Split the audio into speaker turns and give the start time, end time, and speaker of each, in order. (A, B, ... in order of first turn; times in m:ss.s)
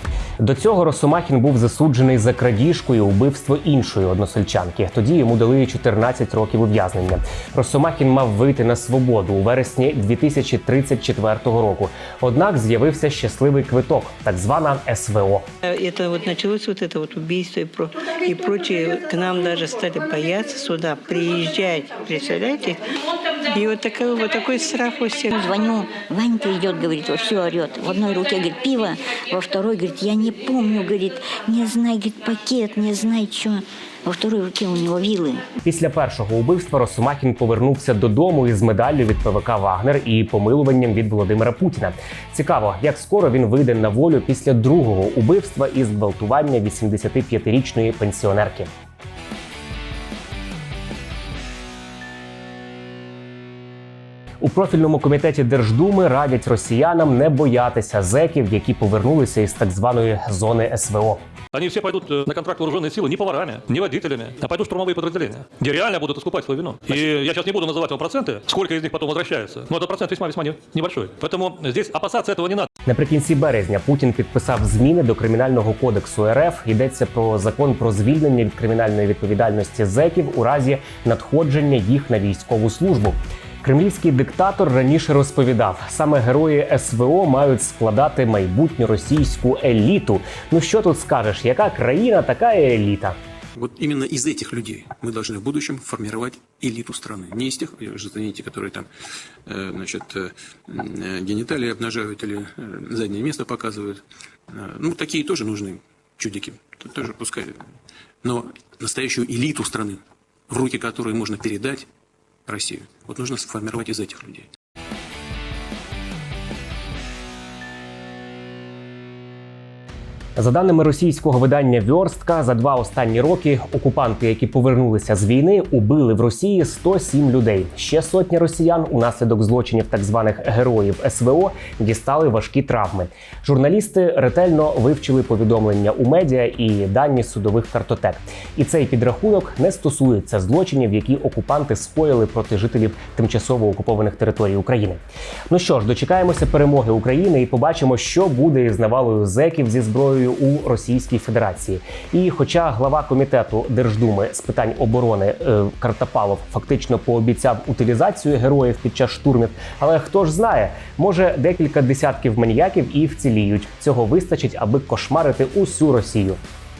0:00.4-0:15.5 A
0:15.6-0:25.3 B
0:25.3-0:35.4 C
0:35.6-0:48.7 A
0:54.4-1:01.2 A
1:01.5-1:12.7 D
1:12.9-1:33.2 A
1:33.6-1:38.9 E
1:39.5-1:47.6 E
1:48.2-1:51.9 E
1:52.5-1:54.5 E
2:00.4-2:46.4 A